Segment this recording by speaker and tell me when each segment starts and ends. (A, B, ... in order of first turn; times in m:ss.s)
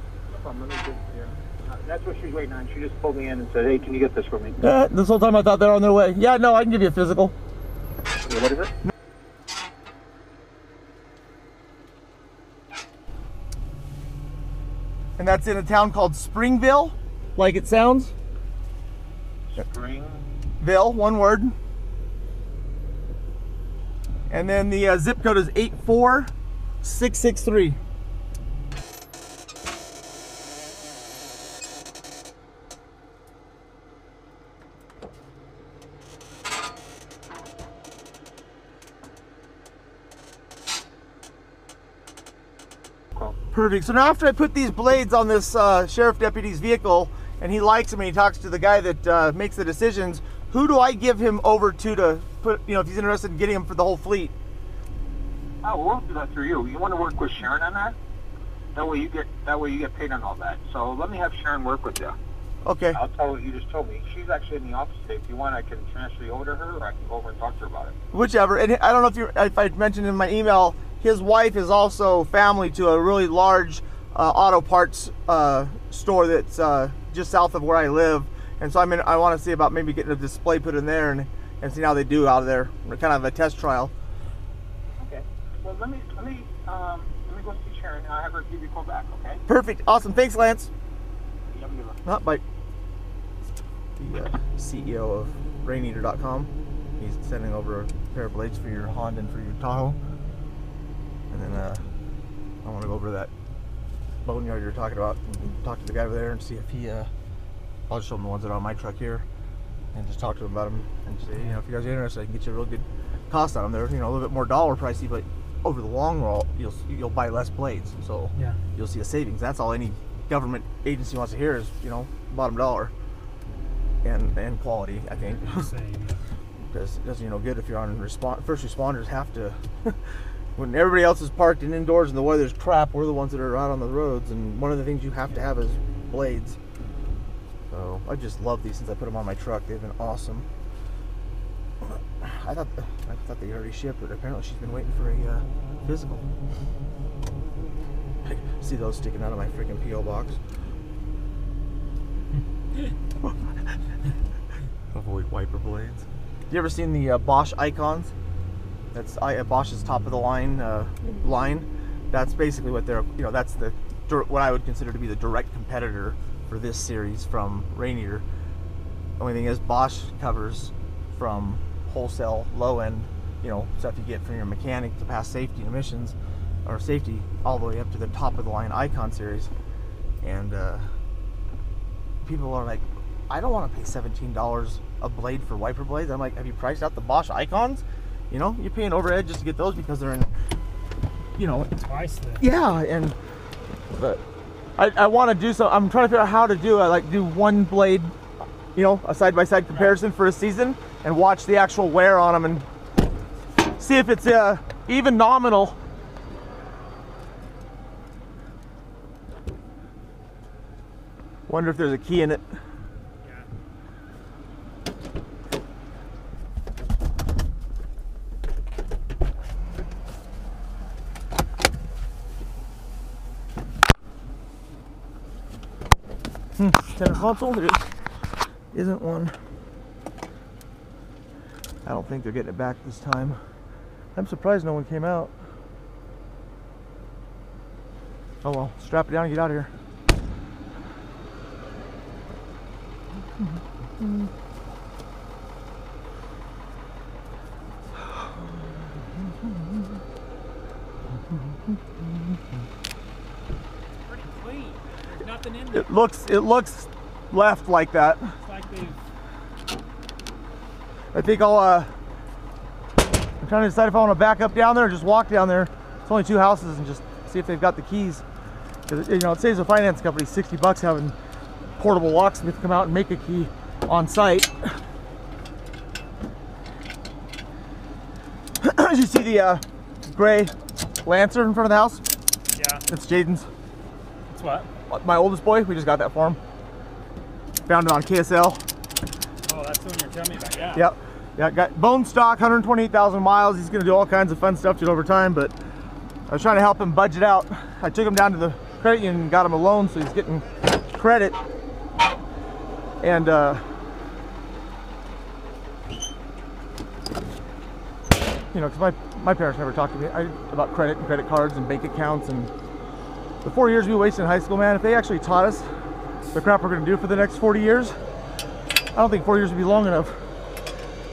0:00.3-0:04.6 A
0:04.6-0:07.4 B
0:08.1-0:08.7 A
0:15.2-0:18.1 B
0:19.5-0:20.2 A
0:20.6-0:21.6 B
0:24.3-0:27.8 B
0:43.5-0:54.3 B
0:55.6-0:58.0 A
0:58.8-1:02.2 A
1:02.6-1:03.0 B
1:02.9-1:08.0 A
1:08.1-1:23.9 B
1:25.0-1:29.4 A
1:29.5-1:30.7 B
1:31.4-1:32.0 A
1:32.0-1:32.4 B
1:34.0-1:40.0 B
1:41.3-1:41.8 B
1:42.6-1:43.3 B
1:44.2-1:47.1 B
1:47.9-1:49.3 B
1:49.9-2:02.9 B
1:58.3-1:58.6 C
2:04.0-2:05.7 B
2:05.2-2:06.2 C
2:06.7-2:16.6 B
2:17.7-2:20.5 B
2:21.8-2:26.3 B
2:28.2-2:30.4 B
2:32.4-2:32.9 C
2:34.9-2:38.1 B
2:38.9-2:48.2 B
2:49.2-2:59.5 B
3:00.2-3:00.9 B
3:02.2-3:10.3 B
3:11.4-3:11.7 B
3:11.8-3:12.4 C
3:12.4-3:13.2 B
3:14.0-3:14.2 B
3:14.8-3:18.2 B
3:18.8-3:22.7 B
3:19.7-3:20.0 C
3:23.6-3:25.8 B
3:31.5-3:32.6 B
3:33.2-3:33.5 C
3:46.6-3:48.0 B
3:48.7-3:49.4 B
3:51.8-3:53.4 B
3:54.2-3:55.3 B
3:58.4-3:59.7 B
4:04.0-4:04.3 B
4:14.0-4:15.9 C
4:15.7-4:18.4 B
4:18.4-4:19.0 C
4:21.1-4:21.9 B
4:23.4-4:28.2 B
4:28.9-4:31.2 B
4:31.8-4:34.8 B
4:38.6-4:42.0 B
4:42.5-4:42.8 C
4:42.9-4:43.5 B
4:44.3-4:44.7 C
4:44.9-4:46.4 B
4:47.7-4:48.6 B
4:49.4-4:50.9 C
4:50.8-4:55.5 B
4:56.3-5:01.4 B
5:03.0-5:03.7 B
5:08.5-5:12.5 B
5:13.4-5:15.7 B
5:16.3-5:18.0 B
5:19.0-5:20.2 B